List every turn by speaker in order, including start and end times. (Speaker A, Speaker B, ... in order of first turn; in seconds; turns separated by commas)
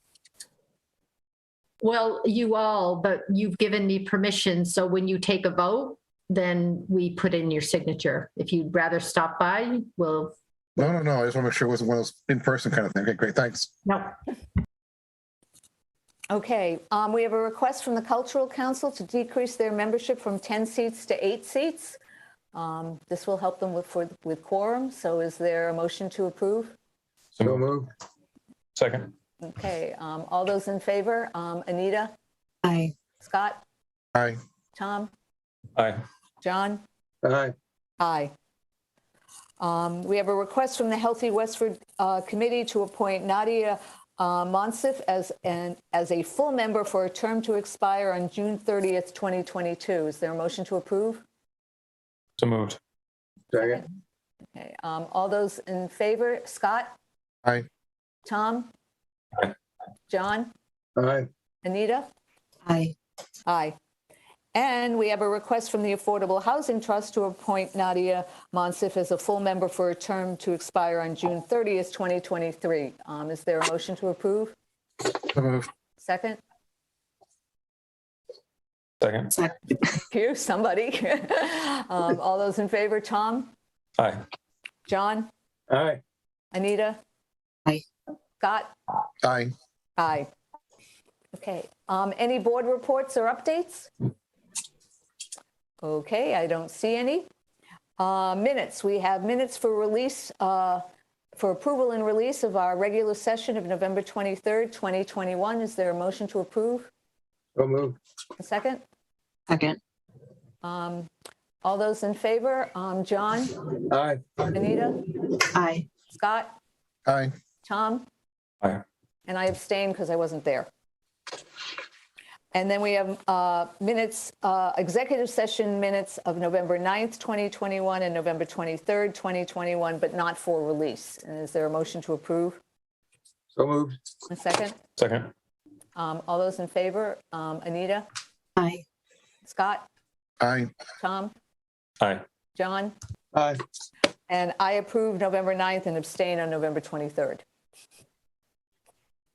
Speaker A: 1.8-10.3, Speaker B: 10.8-13.7, Speaker A: 13.9-14.1, Speaker C: 16.3-22.0, Speaker C: 22.5-26.8, Speaker D: 27.4-27.6, Speaker E: 27.4-27.9, Speaker D: 28.8-29.1, Speaker C: 29.4-32.1, Speaker F: 32.6-32.9, Speaker C: 33.2-33.6, Speaker C: 34.8-35.1, Speaker D: 35.8-36.0, Speaker C: 36.4-36.8, Speaker E: 37.2-37.5, Speaker C: 38.0-38.3, Speaker C: 39.6-51.2, Speaker D: 52.4-52.8, Speaker E: 53.5-53.8, Speaker C: 54.5-56.9, Speaker C: 58.3-58.7, Speaker C: 60.1-60.5, Speaker E: 61.0-61.3, Speaker C: 61.6-62.1, Speaker F: 62.7-63.0, Speaker C: 63.5-63.8, Speaker C: 64.5-74.5, Speaker B: 75.3-75.7, Speaker C: 76.0-76.4, Speaker D: 79.0-79.3, Speaker F: 79.3-80.0, Speaker C: 80.0-83.5, Speaker C: 84.9-85.3, Speaker E: 85.7-86.0, Speaker C: 86.5-87.0, Speaker C: 88.4-88.7, Speaker B: 89.2-89.5, Speaker C: 90.0-90.3, Speaker C: 91.3-93.9, Speaker C: 95.8-97.3, Speaker C: 98.0-100.8, Speaker C: 101.4-106.9, Speaker E: 107.6-108.0, Speaker C: 108.4-108.8, Speaker F: 109.5-109.8, Speaker C: 110.6-111.1, Speaker C: 111.6-113.6, Speaker E: 113.9-114.4, Speaker C: 114.5-115.1, Speaker F: 115.5-115.9, Speaker C: 116.1-116.5, Speaker B: 117.1-117.3, Speaker C: 117.6-118.1, Speaker C: 119.3-120.7, Speaker C: 122.5-132.6, Speaker E: 133.6-134.0, Speaker C: 134.3-134.8, Speaker D: 135.0-135.3, Speaker C: 135.9-138.1, Speaker F: 138.6-138.8, Speaker C: 139.4-139.9, Speaker B: 140.4-140.7, Speaker C: 141.0-141.3, Speaker C: 142.6-142.9, Speaker E: 143.3-143.6, Speaker C: 144.3-147.4